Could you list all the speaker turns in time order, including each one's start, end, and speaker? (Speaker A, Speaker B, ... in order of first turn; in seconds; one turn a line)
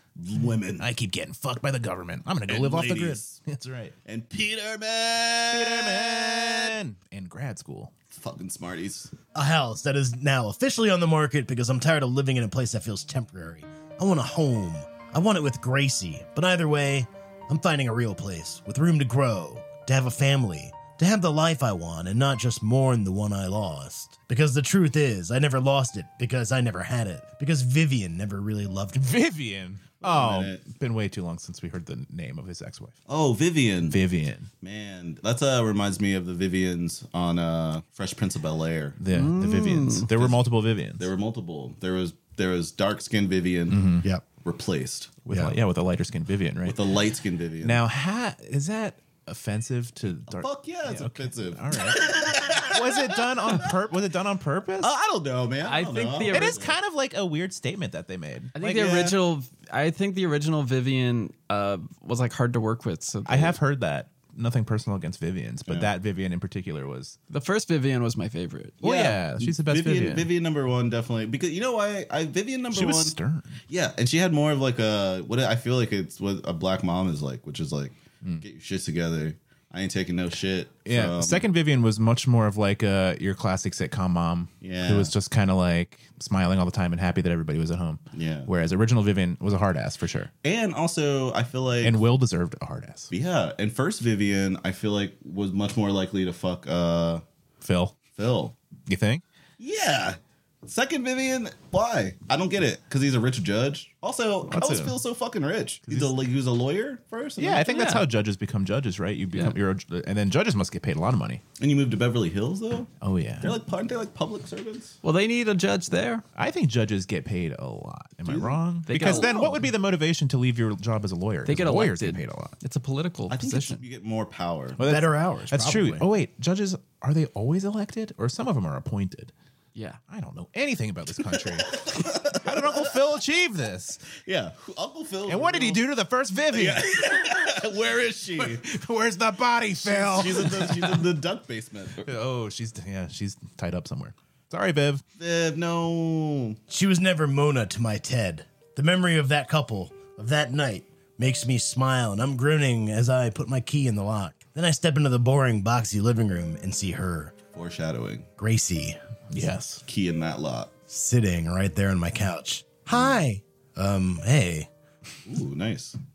Speaker A: 0.1-0.8
Speaker B: 0.8-3.9
Speaker A: 2.5-3.4
Speaker A: 4.0-6.8
Speaker B: 5.5-7.9
Speaker A: 8.1-9.1
Speaker C: 9.3-29.1
Speaker B: 28.9-33.0
Speaker A: 30.0-30.6
Speaker A: 33.1-34.0
Speaker B: 33.9-34.5
Speaker A: 34.6-39.0
Speaker B: 39.0-41.1
Speaker D: 39.1-40.1
Speaker A: 40.1-40.4
Speaker A: 41.0-45.2
Speaker B: 43.7-44.1
Speaker B: 45.2-46.8
Speaker A: 46.6-47.8
Speaker B: 47.6-54.9
Speaker A: 50.3-53.1
Speaker A: 54.8-56.7
Speaker D: 55.6-56.6
Speaker B: 56.3-58.8
Speaker D: 58.5-63.6
Speaker A: 58.6-59.2
Speaker B: 63.2-67.2
Speaker D: 67.3-68.8
Speaker B: 68.8-70.3
Speaker A: 68.8-73.2
Speaker B: 72.7-73.6
Speaker A: 73.7-81.5
Speaker B: 80.8-90.3
Speaker A: 84.6-85.1
Speaker A: 88.1-88.5
Speaker A: 90.4-92.0
Speaker B: 91.8-93.1
Speaker A: 93.1-97.2
Speaker B: 97.6-98.0
Speaker A: 98.2-98.5
Speaker B: 98.9-99.2
Speaker A: 99.6-107.7
Speaker B: 104.5-105.0
Speaker B: 105.9-106.1
Speaker B: 107.4-111.4
Speaker D: 107.7-108.0
Speaker A: 111.6-115.0
Speaker B: 113.0-113.5
Speaker D: 115.0-116.2
Speaker B: 116.3-122.5
Speaker A: 118.2-119.6
Speaker D: 118.9-119.5
Speaker D: 121.5-123.8
Speaker A: 123.3-124.8
Speaker B: 124.8-129.3
Speaker C: 124.8-126.0
Speaker D: 129.7-130.0
Speaker B: 130.1-134.1
Speaker A: 131.7-132.8
Speaker A: 134.2-135.8
Speaker B: 135.3-136.8
Speaker A: 136.5-138.7
Speaker B: 138.4-141.0
Speaker A: 139.8-142.1
Speaker B: 142.0-145.0
Speaker A: 145.2-146.6
Speaker C: 146.7-157.3
Speaker A: 157.5-158.3
Speaker C: 158.4-159.0
Speaker B: 159.3-159.8
Speaker A: 159.8-160.7
Speaker C: 160.9-164.7
Speaker A: 165.2-165.9